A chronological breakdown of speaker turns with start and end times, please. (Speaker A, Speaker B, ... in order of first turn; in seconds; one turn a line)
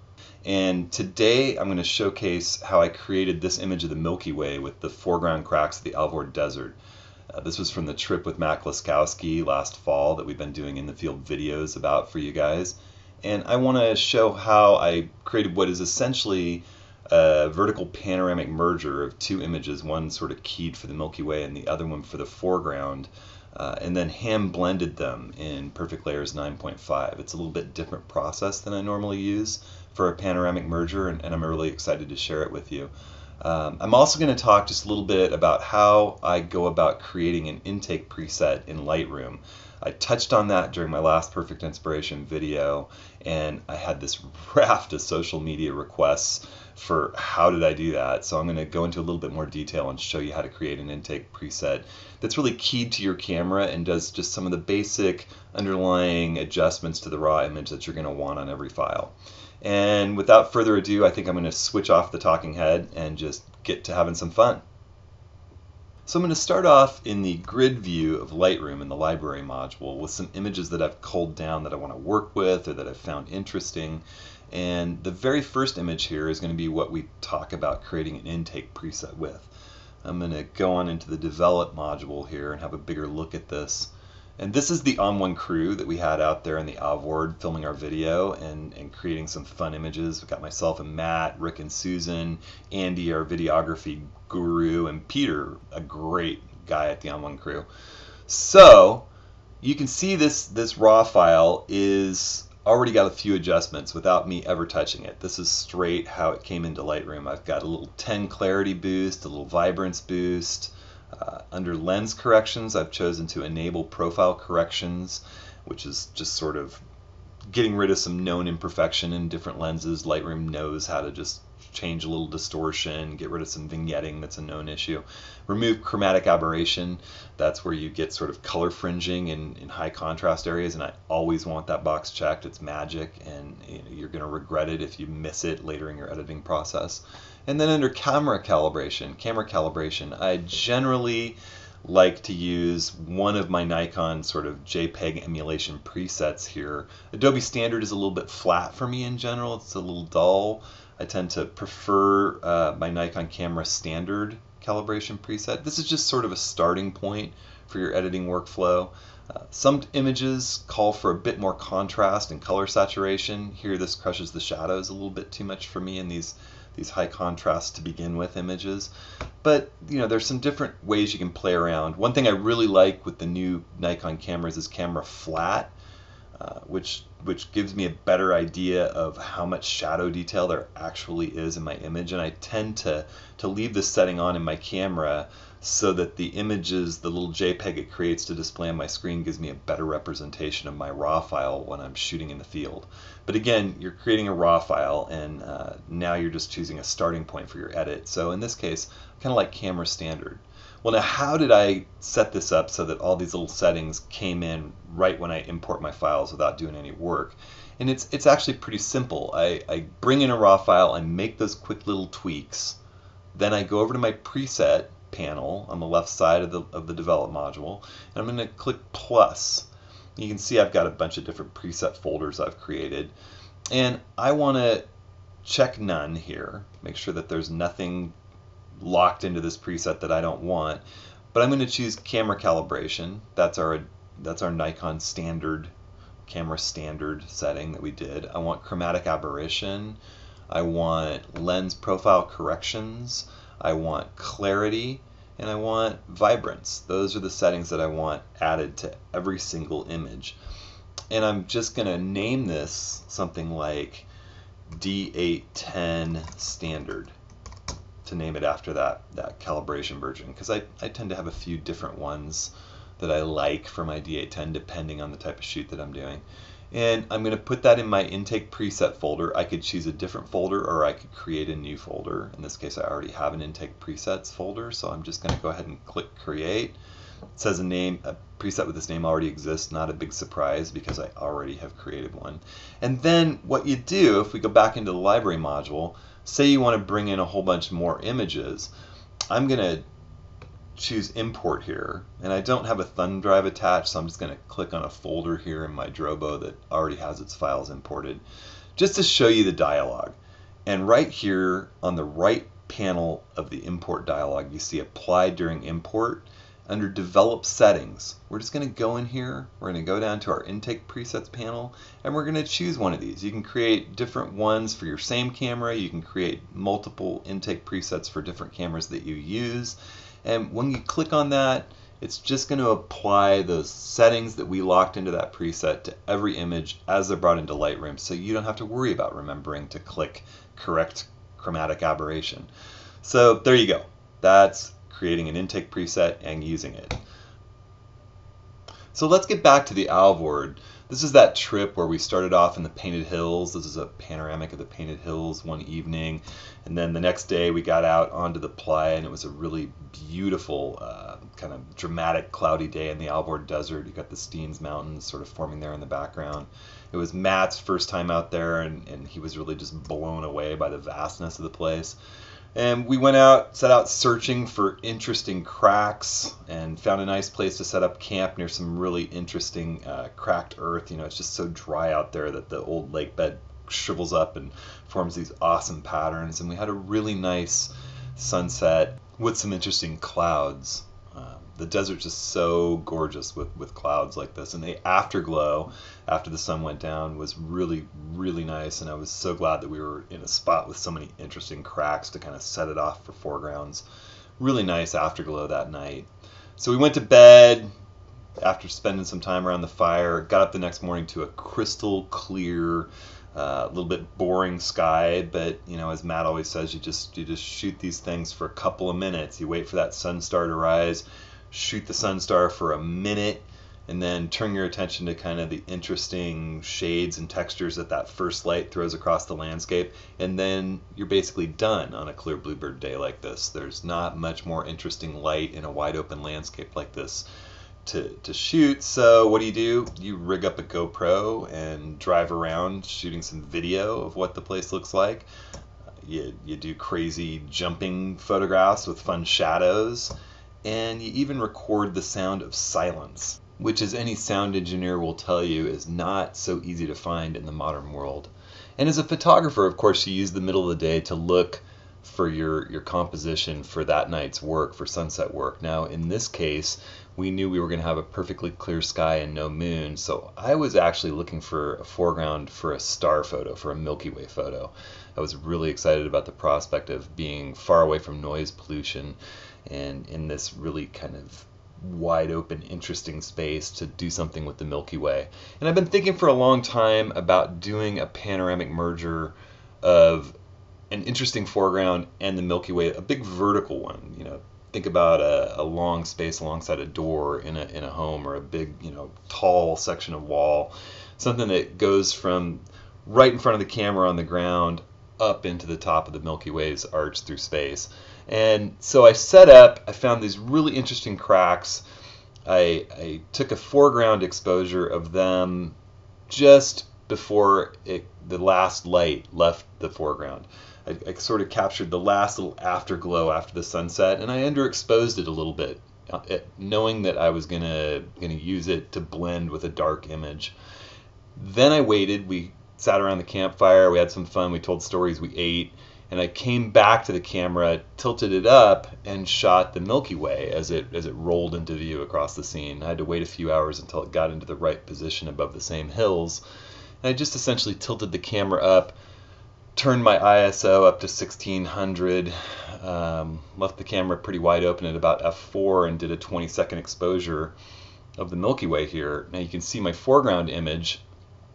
Speaker A: 0.4-6.8
Speaker A: 7.3-64.6
Speaker A: 66.0-79.5
Speaker A: 80.0-97.7
Speaker A: 98.3-99.0
Speaker A: 99.6-116.8
Speaker A: 117.5-168.9
Speaker A: 169.4-175.7
Speaker A: 176.4-212.8
Speaker A: 213.3-223.1
Speaker A: 223.7-224.9
Speaker A: 225.4-228.1
Speaker A: 228.8-230.8
Speaker A: 231.3-235.7
Speaker A: 236.2-240.0
Speaker A: 240.5-250.3
Speaker A: 251.1-254.1
Speaker A: 254.7-257.1
Speaker A: 258.0-276.8
Speaker A: 277.4-288.7
Speaker A: 289.3-289.8
Speaker A: 290.8-298.2
Speaker A: 298.8-332.5
Speaker A: 333.0-337.0
Speaker A: 338.9-362.0
Speaker A: 362.5-393.8
Speaker A: 394.4-397.7
Speaker A: 398.4-427.2
Speaker A: 427.8-435.3
Speaker A: 436.0-440.1
Speaker A: 440.6-480.4
Speaker A: 480.9-501.8
Speaker A: 502.4-505.7
Speaker A: 506.3-520.5
Speaker A: 521.4-536.4
Speaker A: 537.0-538.9
Speaker A: 539.7-547.5
Speaker A: 548.2-551.0